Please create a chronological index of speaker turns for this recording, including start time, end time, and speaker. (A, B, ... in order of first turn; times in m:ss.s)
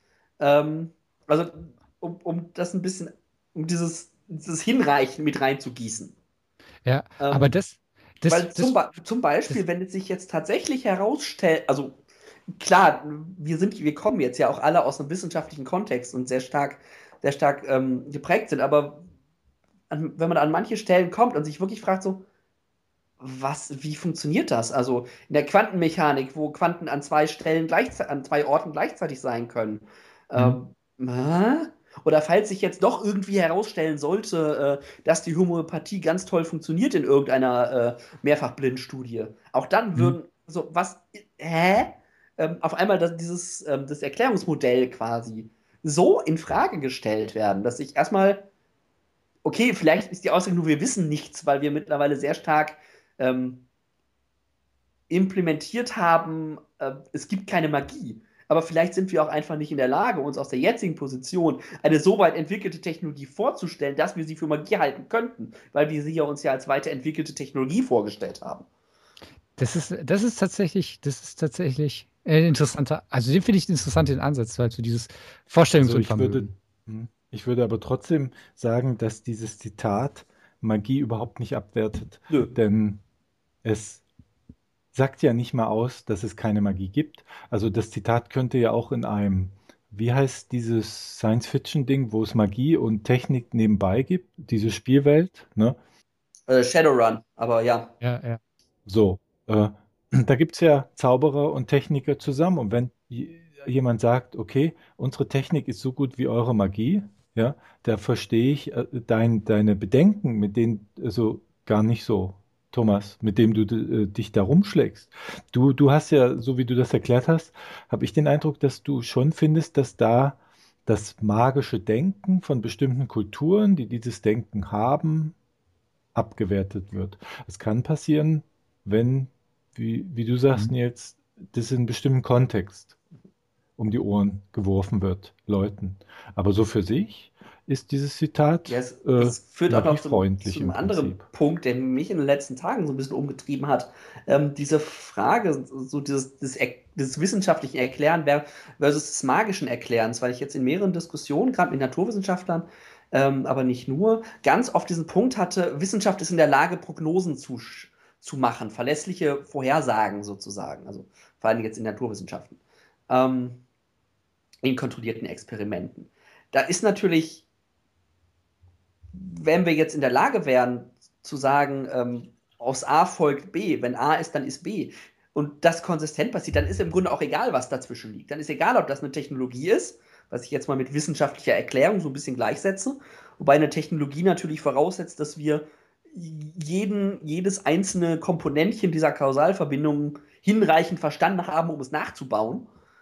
0:00.4-0:06.1 A
0:06.8-0:08.7 B
0:07.2-0:07.5 A
0:08.3-0:12.0 A
0:12.5-0:19.0 A
0:19.9-0:22.2 A
0:23.2-0:48.4 A
0:49.4-0:53.6 A
0:55.1-1:08.6 A
1:09.6-1:16.5 B
1:15.8-1:23.0 C
1:23.6-1:24.0 C
1:24.9-1:35.8 C
1:36.5-1:37.9 A
1:38.0-1:38.4 B
1:38.8-2:05.4 C
2:06.1-2:13.0 C
2:13.8-2:21.2 C
2:18.7-2:43.6 A
2:44.6-2:47.4 A
2:49.1-3:12.7 A